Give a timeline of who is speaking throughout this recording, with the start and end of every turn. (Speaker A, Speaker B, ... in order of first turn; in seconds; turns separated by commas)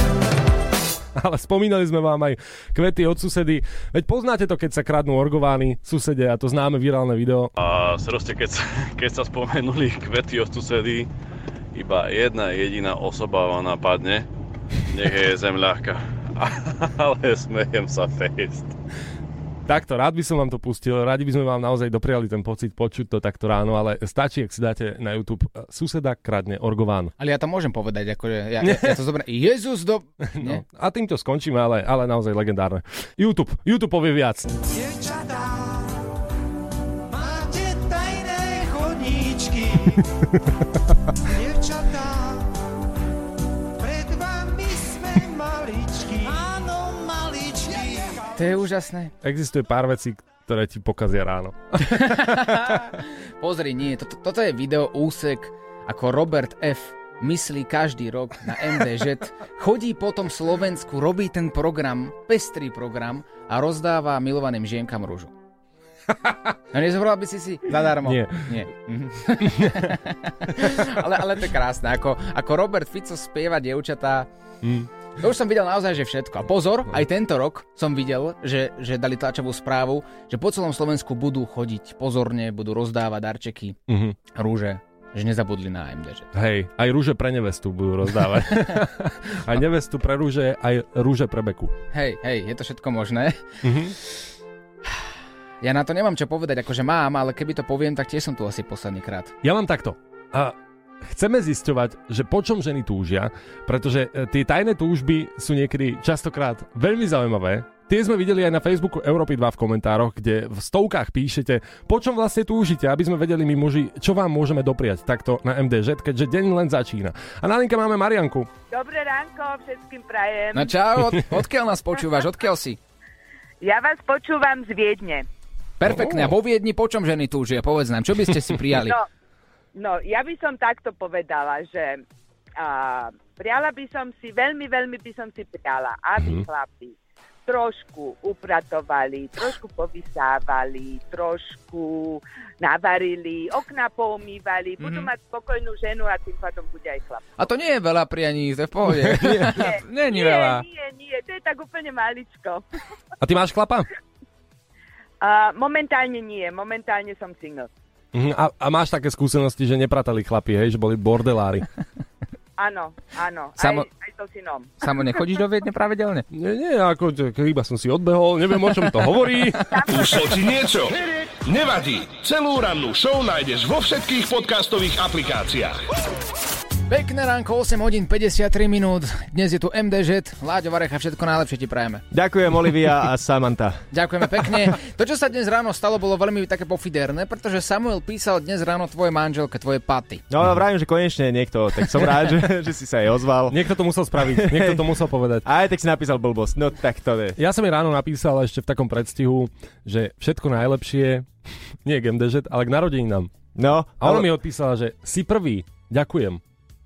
Speaker A: 1.1-7.5, Speaker B: 7.6-11.1, Speaker B: 11.7-14.2, Speaker B: 14.9-18.7, Speaker A: 19.7-27.1, Speaker C: 27.2-30.6, Speaker A: 28.6-29.0, Speaker A: 30.4-34.5, Speaker D: 34.7-35.9, Speaker D: 37.1-40.0, Speaker D: 41.3-42.5, Speaker D: 43.8-48.3, Speaker C: 48.4-49.1, Speaker A: 49.2-52.8, Speaker C: 51.9-65.3, Speaker A: 66.2-66.5, Speaker C: 66.7-74.3, Speaker A: 68.0-68.5, Speaker A: 69.5-69.9, Speaker A: 74.6-74.9, Speaker C: 75.2-83.8, Speaker A: 83.9-84.2, Speaker C: 84.3-86.3, Speaker A: 86.3-91.7, Speaker C: 88.5-88.8, Speaker C: 91.9-93.6, Speaker A: 93.6-93.9, Speaker C: 95.6-99.3, Speaker A: 99.4-118.5, Speaker E: 118.7-120.8, Speaker C: 120.5-122.8, Speaker E: 123.6-125.2, Speaker C: 125.8-129.0, Speaker A: 125.9-126.3, Speaker E: 129.7-132.0, Speaker E: 132.6-136.9, Speaker E: 137.4-147.2, Speaker C: 144.8-145.1, Speaker C: 147.4-150.6, Speaker F: 149.1-149.4, Speaker E: 149.5-152.6, Speaker A: 153.2-153.9, Speaker E: 155.2-157.7, Speaker A: 158.1-161.6, Speaker E: 162.6-165.1, Speaker C: 163.6-163.9, Speaker C: 164.8-166.2, Speaker A: 166.3-169.7, Speaker G: 169.9-175.8, Speaker C: 176.9-182.0, Speaker F: 182.1-183.8, Speaker C: 183.9-190.2, Speaker F: 190.3-197.4, Speaker A: 193.5-195.4, Speaker A: 197.4-201.3, Speaker A: 201.8-203.3, Speaker F: 203.5-204.3, Speaker A: 204.0-206.4